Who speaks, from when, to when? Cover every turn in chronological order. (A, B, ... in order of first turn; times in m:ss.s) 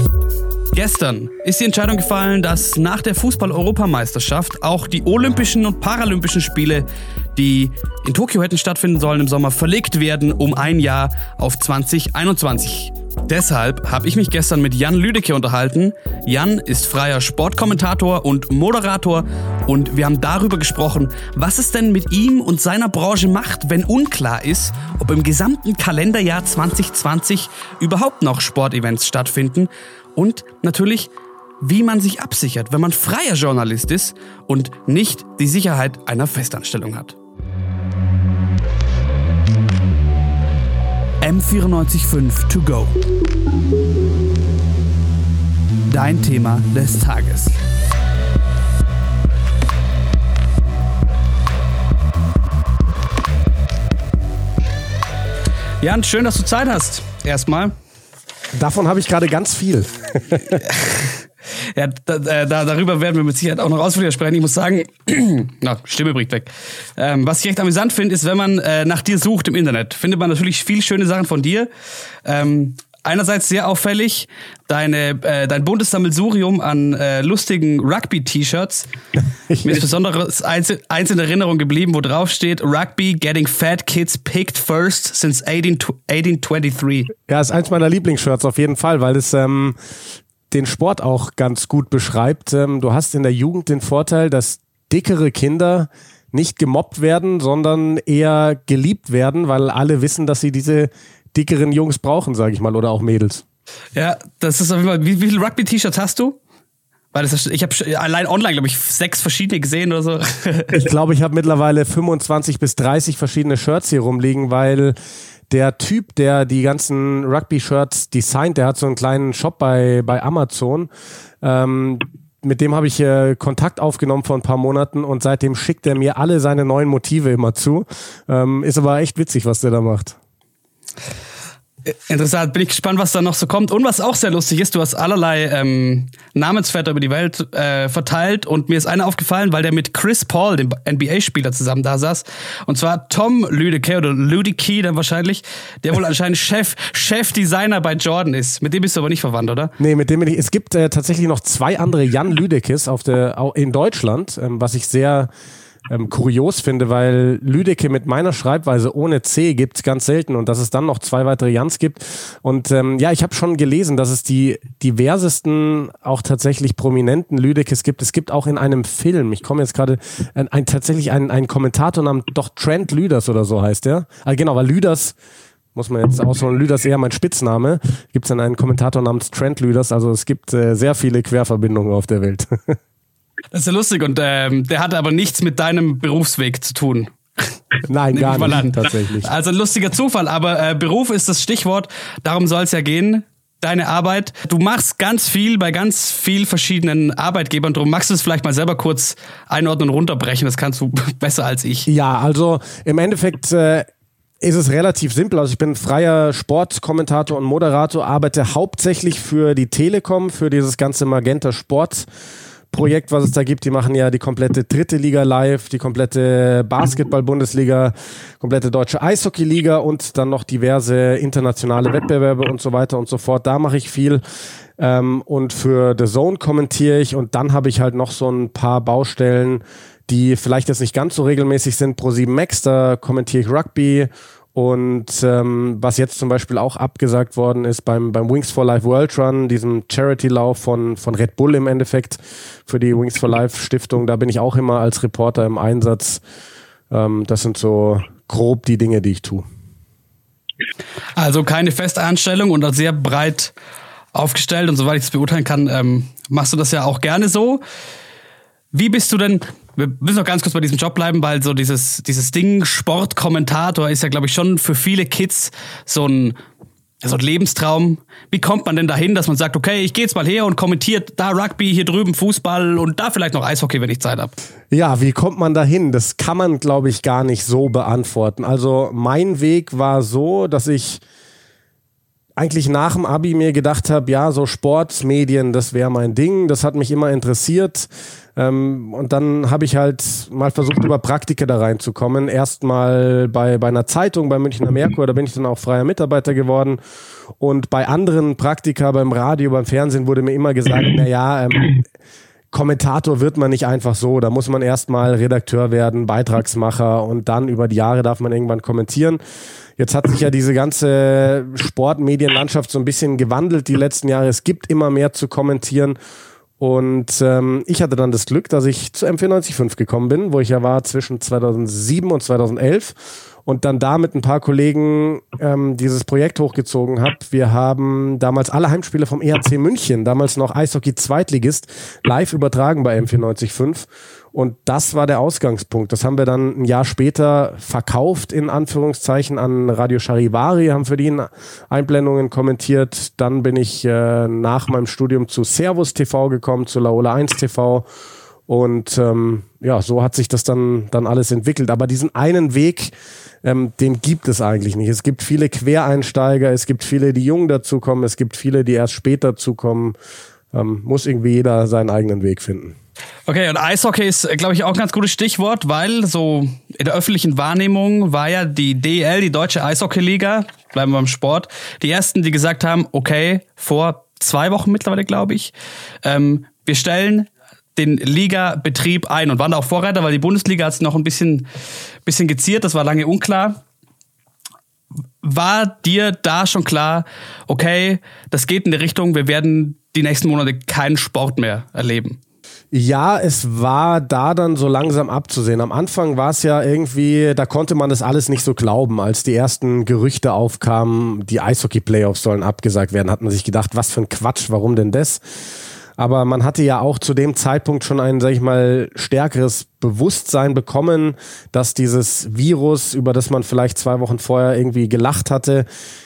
0:00.7-0:37.2 A
0:41.2-0:43.0 A
0:45.9-0:47.6 A
0:55.8-0:57.7 A
0:58.5-1:00.6 B
1:00.5-1:11.7 A
1:12.2-1:18.9 A
1:19.5-1:19.8 B
1:19.6-1:27.1 A
1:27.3-1:29.8 B
1:30.5-1:43.4 B
1:43.9-1:46.4 A
1:47.1-1:50.8 A
1:50.7-1:55.0 B
1:55.5-2:00.9 B
2:01.4-2:10.2 B
2:11.9-2:29.7 A
2:29.8-2:35.3 B
2:35.9-2:55.2 B
2:55.7-3:02.8 B
3:03.5-3:07.4 A
3:07.9-3:09.3 B
3:08.1-3:21.9 A
3:21.9-3:23.9 B
3:24.4-3:32.1 B
3:32.7-3:44.2 B
3:44.8-4:06.2 B
4:06.9-4:09.4 B
4:11.2-4:13.5 A
4:14.1-4:17.6 A
4:18.7-4:26.4 A
4:27.0-4:34.4 A
4:34.7-4:41.0 B
4:42.4-4:56.8 B
4:57.4-5:01.8 B
5:02.5-5:09.2 B
5:09.8-5:16.0 B
5:16.6-5:47.9 B
5:48.5-6:00.0 B
6:00.5-6:02.8 B
6:03.3-6:15.5 A
6:16.0-6:21.5 A
6:22.0-6:23.6 A
6:25.2-6:32.2 A
6:32.7-6:45.2 B
6:46.0-6:55.6 B